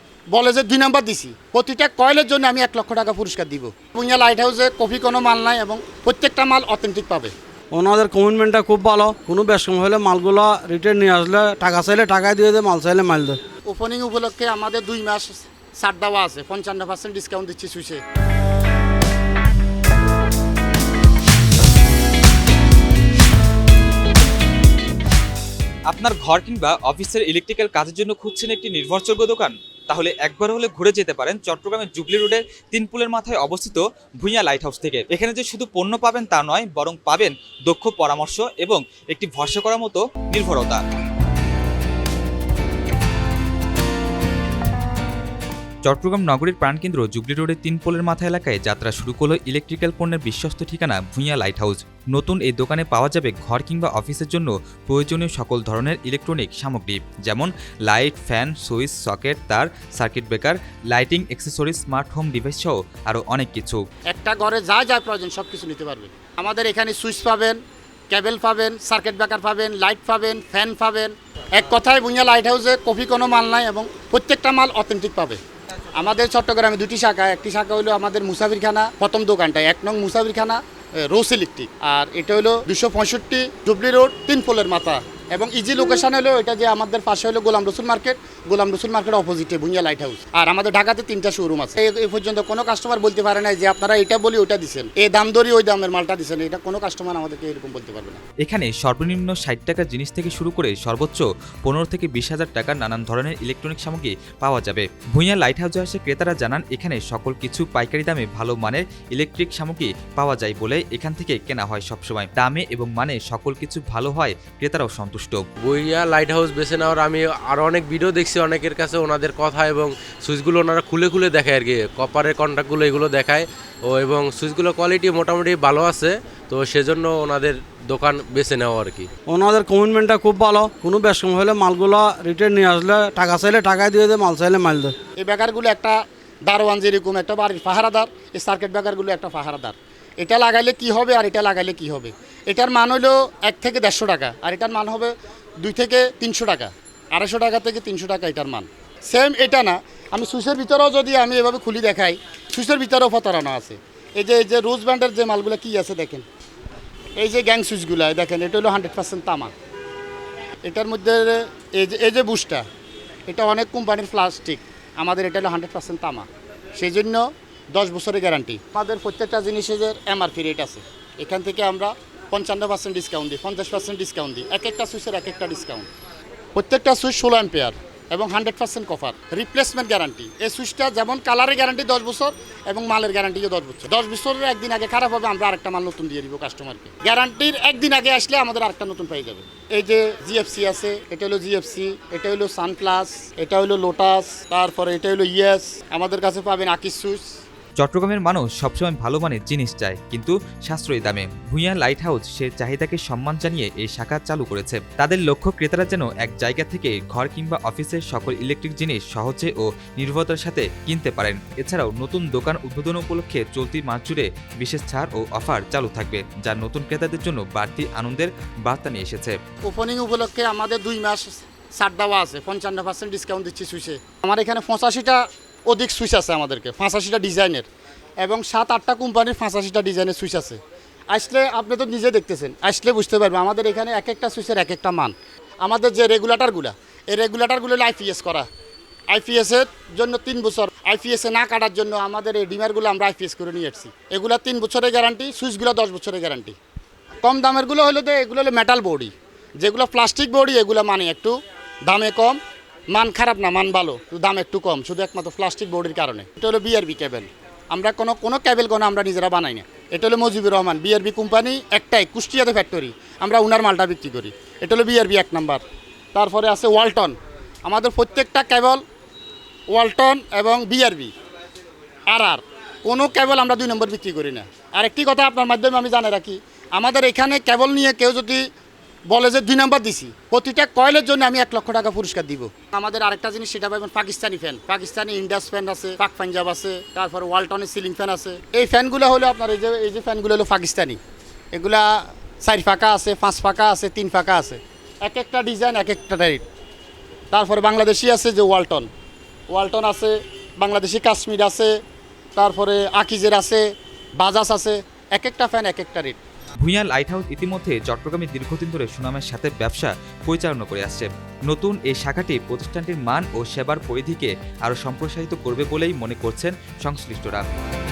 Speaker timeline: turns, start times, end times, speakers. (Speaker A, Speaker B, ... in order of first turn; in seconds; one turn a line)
Speaker A: 0.3-7.3
Speaker B: 7.8-13.4
Speaker A: 13.7-18.0
Speaker C: 25.9-40.8
Speaker C: 45.9-63.8
Speaker A: 64.1-67.6
Speaker A: 68.1-75.4
Speaker A: 76.0-98.2
Speaker C: 98.5-115.5
Speaker D: 115.7-129.1
Speaker B: 129.3-134.9
Speaker A: 135.2-156.2
Speaker A: 157.2-159.5
Speaker A: 160.7-162.7
Speaker A: 163.3-166.3
Speaker A: 166.8-175.9
Speaker A: 176.6-197.2
Speaker C: 197.8-219.4
Speaker A: 219.7-227.7
Speaker A: 228.2-230.6
Speaker A: 231.1-238.5
Speaker A: 239.1-246.6
Speaker A: 247.2-251.3
Speaker A: 251.9-252.4
Speaker A: 252.9-265.6
Speaker A: 266.1-268.8
Speaker A: 269.7-271.1
Speaker A: 272.1-278.4
Speaker A: 279.1-291.0
Speaker A: 291.5-296.4
Speaker A: 297.3-298.9
Speaker A: 299.5-301.8
Speaker A: 302.4-303.6
Speaker A: 304.2-306.2
Speaker C: 306.6-317.4